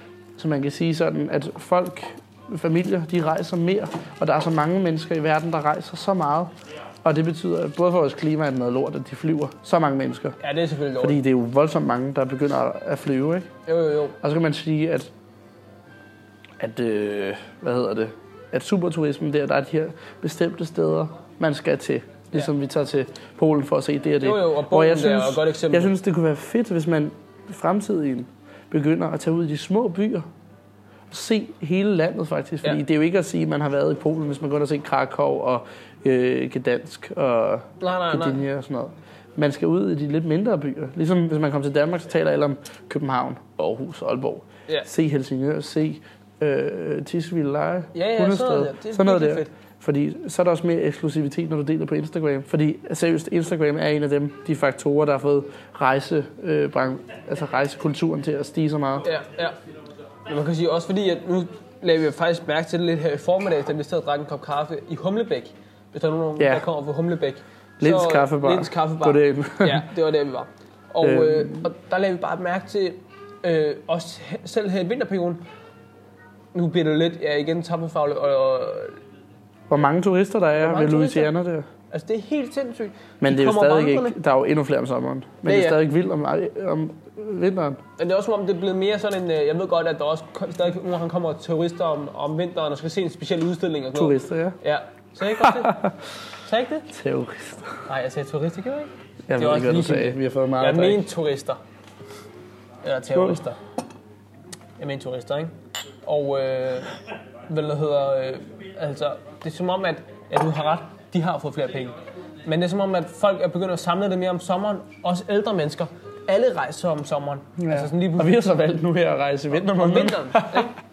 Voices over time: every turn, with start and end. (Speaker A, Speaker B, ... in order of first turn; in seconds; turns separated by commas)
Speaker A: 0.4-6.5, Speaker A: 7.0-10.4, Speaker B: 10.4-11.2, Speaker A: 11.0-13.5, Speaker B: 13.7-14.2, Speaker A: 14.2-15.1, Speaker A: 16.6-30.3, Speaker B: 24.2-25.9, Speaker A: 31.1-59.1, Speaker B: 37.8-38.4, Speaker B: 47.9-49.5, Speaker B: 59.0-59.6, Speaker B: 60.3-75.4, Speaker A: 66.4-66.7, Speaker A: 67.8-69.9, Speaker A: 71.0-71.7, Speaker B: 76.5-79.0, Speaker A: 79.7-81.7, Speaker B: 80.6-81.3, Speaker B: 81.9-84.2, Speaker A: 83.2-87.8, Speaker B: 85.5-85.8, Speaker B: 88.0-95.8, Speaker A: 94.0-94.6, Speaker A: 95.3-96.1, Speaker B: 96.4-96.9, Speaker A: 96.9-97.8, Speaker B: 97.9-101.6, Speaker A: 99.3-101.1, Speaker B: 102.8-103.6, Speaker A: 103.1-103.4, Speaker B: 104.8-107.0, Speaker B: 107.5-118.5, Speaker A: 117.6-120.7, Speaker B: 119.7-120.8